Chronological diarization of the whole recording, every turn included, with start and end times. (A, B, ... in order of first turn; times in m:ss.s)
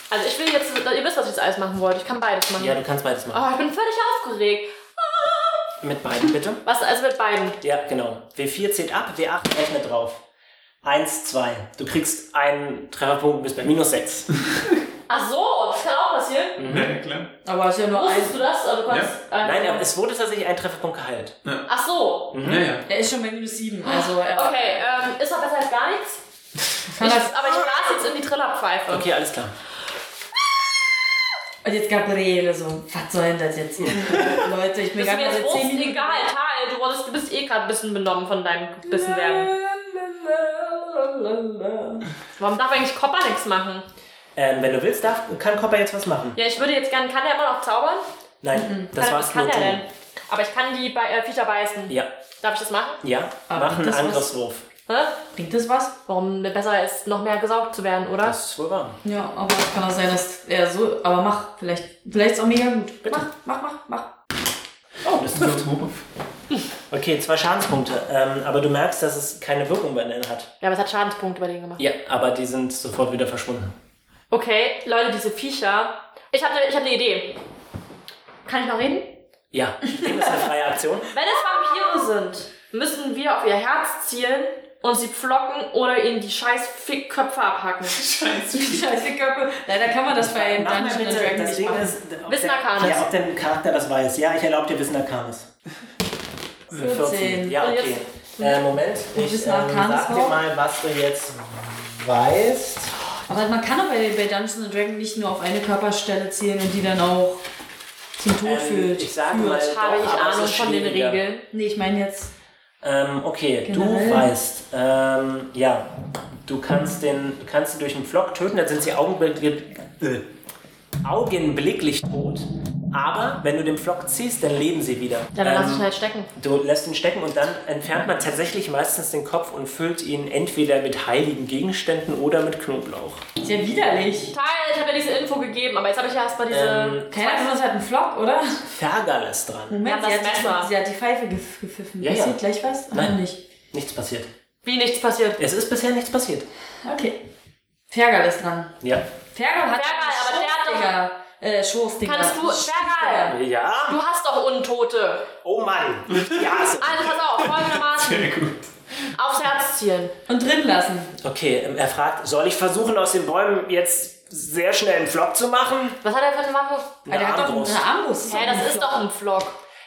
0:00.1-0:02.8 A
0:02.6-0:03.4 B
0:03.3-0:05.7 A
0:05.8-0:06.6 B
0:06.6-0:07.6 A
0:07.6-0:10.2 B
0:10.8-0:14.3 B
0:15.1-0:16.6 A
0:16.6-0:16.9 B
0:16.6-0:17.3 C
0:17.4-0:18.4 D
0:17.9-0:19.9 A
0:19.4-0:21.4 B
0:21.7-0:22.4 A
0:22.3-0:22.7 B
0:22.4-0:22.8 C
0:22.9-0:24.8 D
0:23.8-0:26.2 A
0:26.9-0:27.7 D
0:27.0-0:29.1 A
0:28.9-0:29.6 B
0:31.6-0:36.2 D
0:33.9-0:34.1 B
0:35.0-0:39.5 A
0:38.9-0:42.1 D
0:42.4-0:43.8 A
0:44.4-0:46.4 B
0:46.4-0:48.0 A
0:48.4-0:49.8 B
0:48.5-0:48.9 D
0:48.9-0:53.0 A
0:53.0-0:54.6 B
0:53.5-0:54.3 D
0:54.9-0:55.2 A
0:55.3-0:56.0 D
0:56.1-0:58.4 A
0:58.2-0:59.0 B
0:59.0-1:04.1 D
1:05.0-1:05.7 B
1:05.3-1:06.0 C
1:06.9-1:10.5 B
1:10.6-1:11.8 A
1:11.8-1:13.8 B
1:14.3-1:17.4 A
1:18.5-1:19.2 A
1:19.5-1:21.1 B
1:21.1-1:28.0 A
1:21.6-1:22.1 D
1:27.9-1:29.0 C
1:28.5-1:31.9 D
1:30.1-1:35.5 B
1:32.3-1:33.1 A
1:36.7-1:37.0 C
1:36.7-1:43.0 B
1:36.7-1:37.6 D
1:37.6-1:38.6 A
1:39.2-1:40.4 D
1:43.3-1:47.4 D
1:48.2-1:49.6 D
1:48.4-1:51.2 B
1:49.4-1:51.5 A
1:51.5-1:52.3 D
1:52.8-1:55.9 B
1:53.6-1:54.3 D
1:56.5-2:00.2 B
2:01.0-2:13.2 B
2:05.4-2:06.3 A
2:13.4-2:14.3 D
2:14.3-2:17.5 A
2:16.5-2:17.1 B
2:17.1-2:18.6 D
2:18.6-2:19.8 B
2:19.7-2:23.4 D
2:19.8-2:20.7 A
2:22.0-2:22.4 B
2:22.9-2:23.2 B
2:23.7-2:24.3 B
2:24.6-2:25.4 A
2:25.4-2:26.5 B
2:26.8-2:27.2 D
2:27.9-2:28.8 D
2:29.3-2:33.4 D
2:29.7-2:30.9 A
2:32.0-2:33.4 A
2:33.3-2:34.0 B
2:33.9-2:35.3 A
2:35.4-2:37.2 B
2:36.1-2:36.6 C
2:36.8-2:38.3 A
2:37.4-2:38.7 C
2:39.1-2:40.2 A
2:40.3-2:41.1 D
2:41.2-2:46.0 B
2:46.0-2:47.0 A
2:47.1-2:47.9 B
2:47.1-2:49.0 D
2:48.3-2:49.6 A